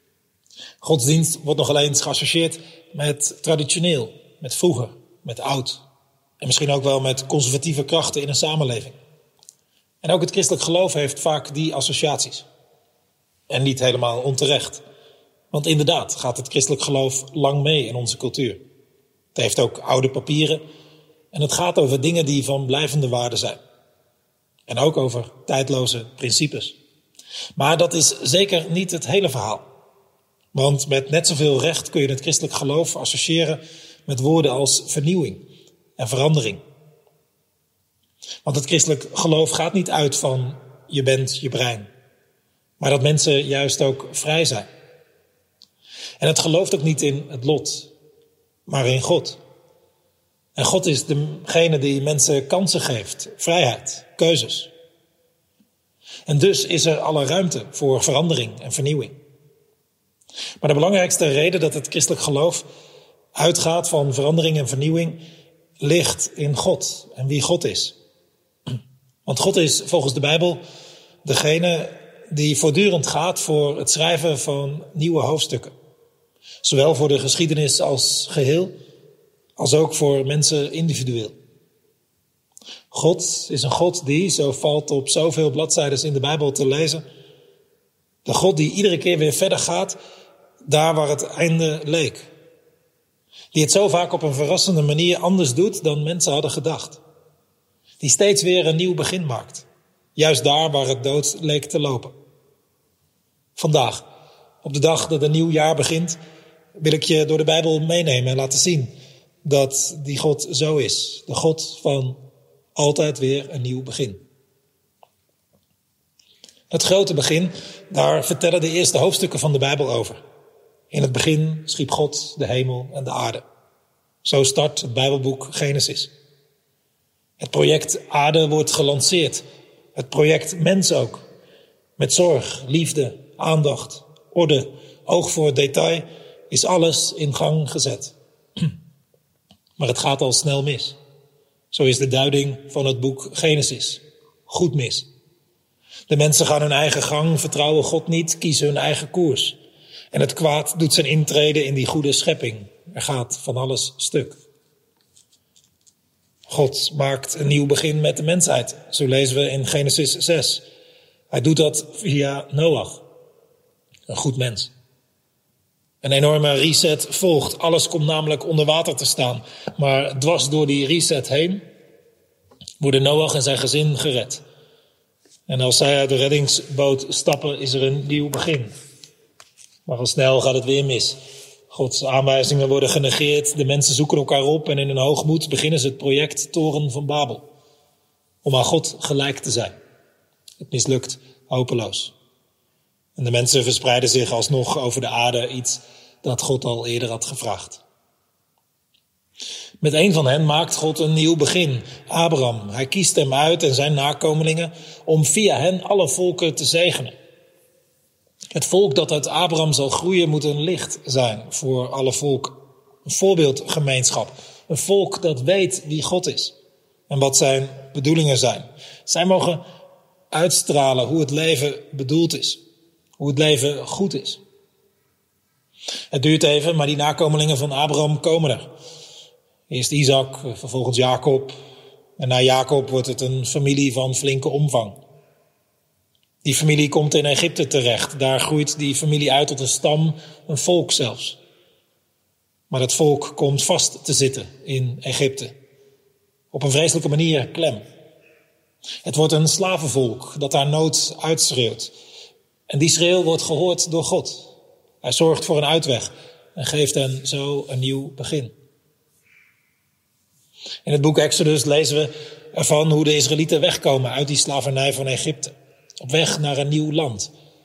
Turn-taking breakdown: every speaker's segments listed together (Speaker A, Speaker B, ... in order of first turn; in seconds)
Speaker A: 0.8-5.8, 6.4-9.0, 10.0-12.5, 13.5-14.8, 15.5-18.6, 19.3-20.6, 21.3-23.6, 24.7-26.8, 27.6-29.7, 30.5-35.5, 36.0-36.6, 38.4-41.9, 42.8-44.7, 46.2-47.9, 48.7-49.4, 50.6-54.7, 56.3-59.2, 60.6-62.7, 63.3-65.2, 65.8-68.0, 69.2-70.6, 71.2-75.8, 76.6-78.7, 79.6-81.4, 82.9-87.0, 88.2-90.0, 90.6-92.3, 93.5-97.0, 98.0-102.2, 103.6-104.0, 104.6-106.2, 106.8-112.2, 112.8-114.2, 116.7-120.2, 120.9-123.4, 124.2-126.1, 127.4-131.3, 132.0-138.2, 139.8-141.0, 141.7-145.1, 146.1-149.6, 150.1-154.4, 156.5-160.7, 161.3-163.1, 164.1-164.7, 166.0-171.7, 172.8-174.4, 175.5-178.7, 179.9-187.5, 188.4-189.8, 190.6-192.1, 193.2-197.8, 199.8-207.2, 208.5-216.6, 217.1-219.6, 220.3-222.6, 223.2-224.4, 226.1-228.7, 229.7-231.6, 232.2-235.0, 236.4-241.4, 242.7-245.6, 246.5-247.8, 249.0-251.9, 252.7-258.5, 260.9-267.3